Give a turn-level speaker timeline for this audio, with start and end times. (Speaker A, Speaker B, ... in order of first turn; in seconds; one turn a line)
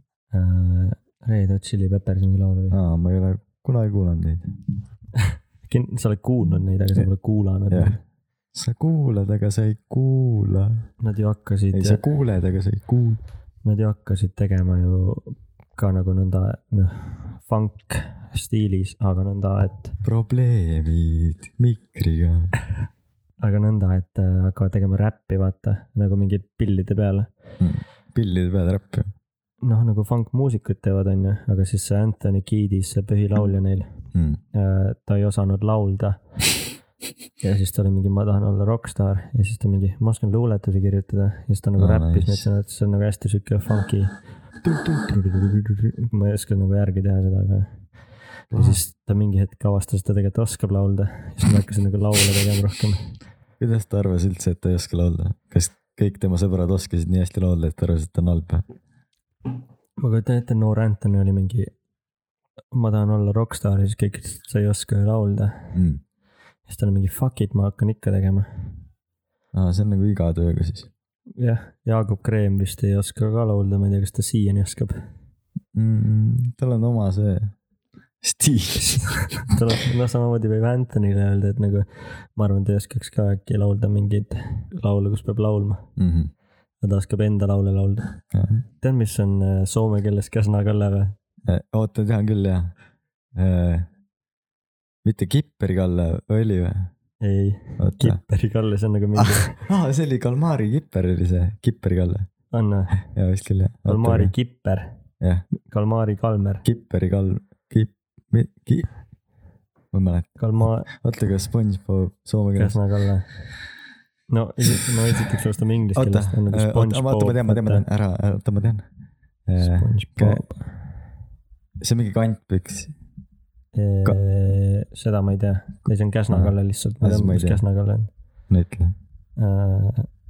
Speaker A: 0.3-2.8
Speaker B: 2.7-4.5
Speaker A: 5.2-8.0
Speaker B: 7.7-8.0
Speaker B: 8.5-10.8
Speaker A: 11.0-12.0
Speaker B: 11.7-13.2
Speaker A: 13.6-20.0
Speaker B: 20.0-22.5
Speaker A: 23.4-27.3
Speaker B: 27.6-29.1
Speaker A: 29.6-34.0
Speaker B: 34.1-34.4
Speaker A: 34.5-36.2
Speaker A: 37.4-44.2
Speaker B: 41.8-42.5
Speaker B: 44.6-45.0
Speaker A: 44.9-47.9
Speaker B: 48.5-48.8
Speaker A: 48.5-53.1
Speaker B: 53.6-58.6
Speaker A: 60.0-61.7
Speaker A: 62.7-65.8
Speaker B: 65.7-66.0
Speaker A: 66.7-68.8
Speaker B: 69.5-70.9
Speaker A: 71.4-75.0
Speaker B: 75.7-77.5
Speaker B: 78.2-79.4
Speaker A: 78.8-85.9
Speaker B: 86.0-86.3
Speaker A: 86.8-88.2
Speaker B: 88.3-88.6
Speaker A: 88.8-91.2
Speaker B: 91.5-92.7
Speaker B: 93.4-93.9
Speaker B: 95.0-96.9
Speaker A: 97.2-99.6
Speaker B: 97.8-98.2
Speaker B: 99.2-102.3
Speaker A: 102.5-103.0
Speaker B: 103.1-104.3
Speaker A: 103.9-104.9
Speaker B: 105.2-105.5
Speaker A: 105.6-106.7
Speaker B: 106.6-108.9
Speaker B: 109.9-112.8
Speaker A: 110.4-110.9
Speaker A: 112.6-113.3
Speaker A: 114.3-117.8
Speaker B: 116.0-118.8
Speaker B: 119.5-120.5
Speaker A: 119.6-121.0
Speaker B: 121.8-122.9
Speaker A: 123.8-128.1
Speaker B: 126.3-127.6
Speaker B: 128.5-128.9
Speaker A: 129.4-130.1